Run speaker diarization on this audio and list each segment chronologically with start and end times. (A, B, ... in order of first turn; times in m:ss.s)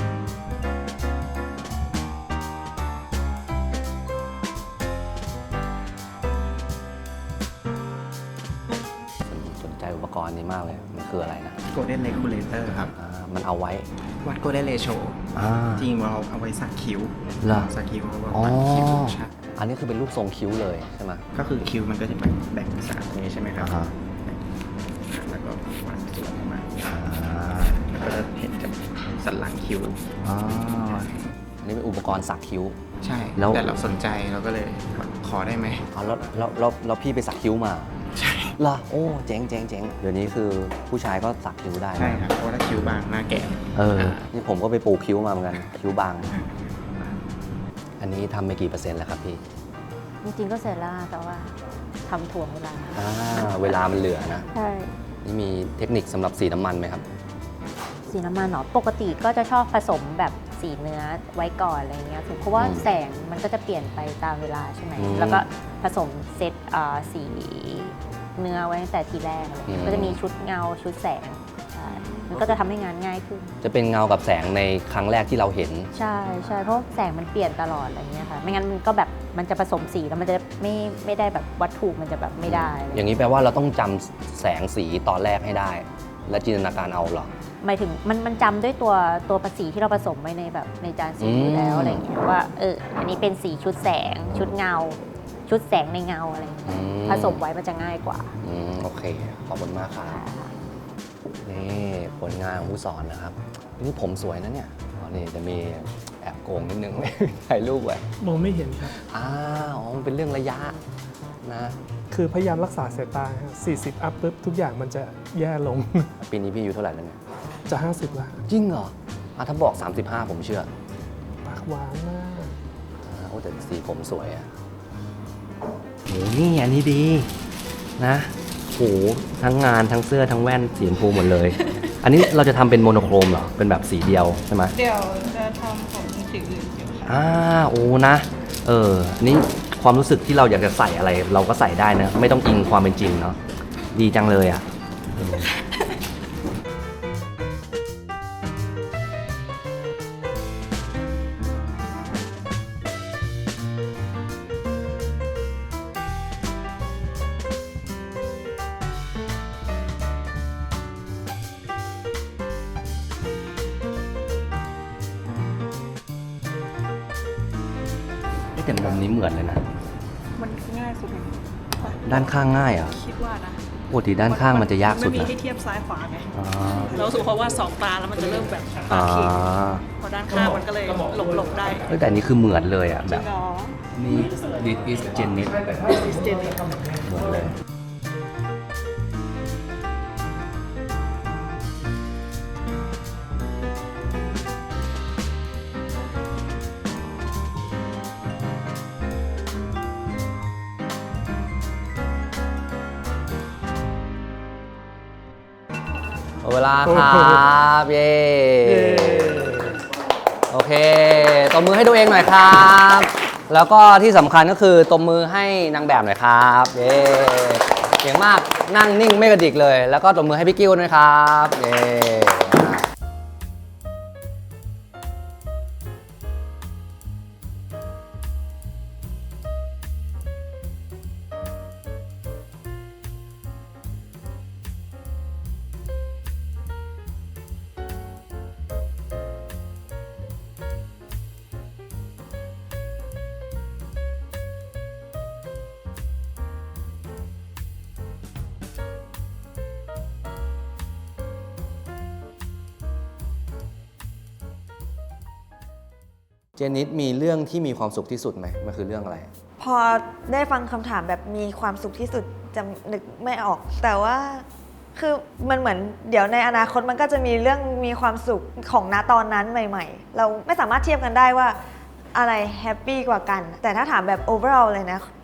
0:09.3-0:11.6 A
0:11.7-0:12.9 B
0:12.8-0:13.9 A
0:14.2-0:15.2 B
0:15.4-0:15.9 A
0:15.8-0:19.3 B
0:17.4-0:17.7 A
0:18.3-0:21.2 A
0:21.3-0:24.4 B
0:23.6-0:23.9 A
0:25.0-0:27.0 B
0:26.8-0:27.8 A
0:27.6-0:30.0 B
0:30.2-0:31.0 A
0:31.6-0:32.8 A
0:33.0-0:35.8 B
0:33.4-0:33.8 A
0:35.9-0:37.9 A
0:38.2-0:38.5 B
0:38.6-0:42.3 A
0:42.0-0:44.2 B
0:43.7-0:46.4 A
0:48.0-0:49.4 A
0:50.2-0:51.5 C
0:52.0-0:53.7 C
0:52.9-0:54.5 A
0:54.5-0:54.9 C
0:55.2-0:57.0 A
0:58.1-1:13.6 C
1:02.6-1:02.9 A
1:05.0-1:05.4 A
1:09.7-1:10.2 A
1:12.0-1:12.4 A
1:13.6-1:15.9 A
1:15.9-1:23.1 C
1:22.4-1:27.3 A
1:27.6-1:38.3 C
1:31.2-1:32.0 A
1:36.7-1:37.4 A
1:38.4-1:40.2 A
1:40.0-1:40.5 C
1:41.4-1:48.0 A
1:48.2-1:48.9 D
1:49.1-1:50.8 A
1:51.4-1:51.8 A
1:52.1-1:56.1 D
1:56.2-1:57.2 A
1:57.7-1:58.4 D
1:58.5-2:00.7 A
2:01.5-2:02.5 D
2:03.0-2:04.5 A
2:06.1-2:07.3 A
2:08.0-2:14.8 A
2:14.7-2:17.1 E
2:17.0-2:23.4 A
2:23.9-2:24.6 A
2:25.2-2:25.5 A
2:48.5-2:49.6 A
2:50.4-2:53.6 E
2:51.9-2:53.0 A
2:53.9-2:55.4 A
2:54.2-2:56.3 E
2:56.3-2:57.0 A
2:56.9-2:59.4 E
2:58.9-2:59.8 A
3:00.0-3:01.9 E
3:00.3-3:02.1 D
3:01.9-3:03.3 A
3:03.0-3:03.8 E
3:03.9-3:05.6 A
3:05.2-3:07.5 D
3:05.8-3:06.6 E
3:07.0-3:07.5 A
3:26.4-3:29.8 A
3:26.9-3:27.4 D
3:28.6-3:29.7 D
3:30.5-3:42.8 A
4:16.6-4:19.3 A
4:19.6-4:31.6 F
4:32.1-4:35.0 F